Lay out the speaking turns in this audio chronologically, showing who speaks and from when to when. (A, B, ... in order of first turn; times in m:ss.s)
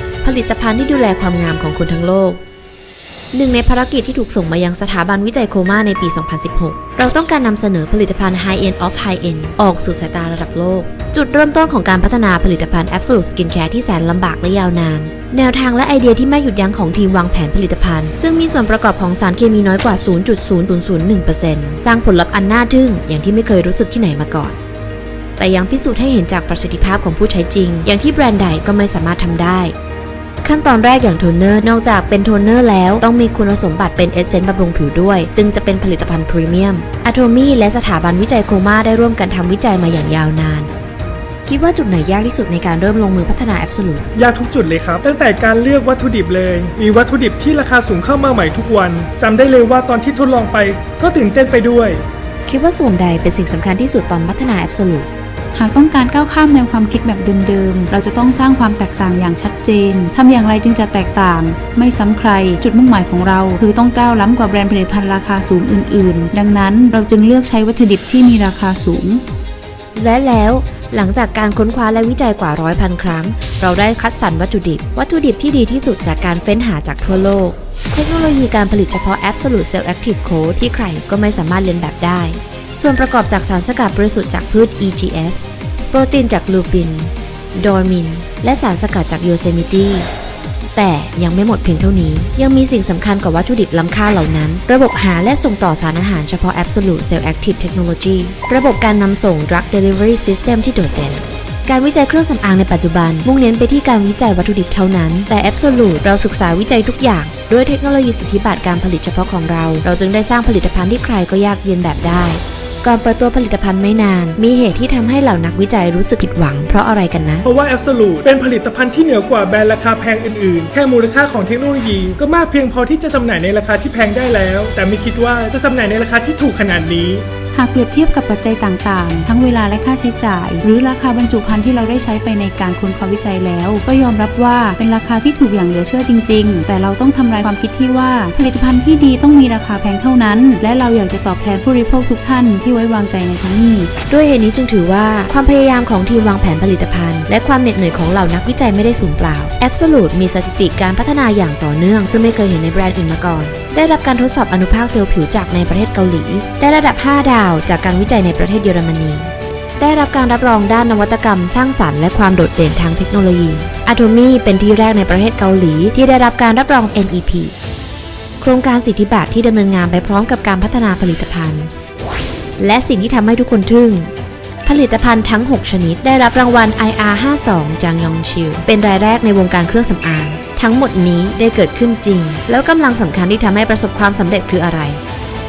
0:00.2-0:02.4 A
0:03.3-0:24.6 A
0:25.4-0:29.7 A
0:30.4-0:40.7 A
0:41.4-0:44.0 A
0:44.1-0:52.0 B
0:52.4-0:55.1 A
0:55.5-1:09.2 C
1:09.9-1:30.1 A
1:30.7-1:57.5 A
1:57.4-2:07.2 B
2:07.5-2:23.9 C
2:24.1-2:47.5 A
2:48.4-2:51.7 A
2:52.6-2:54.1 A
2:54.6-3:05.0 A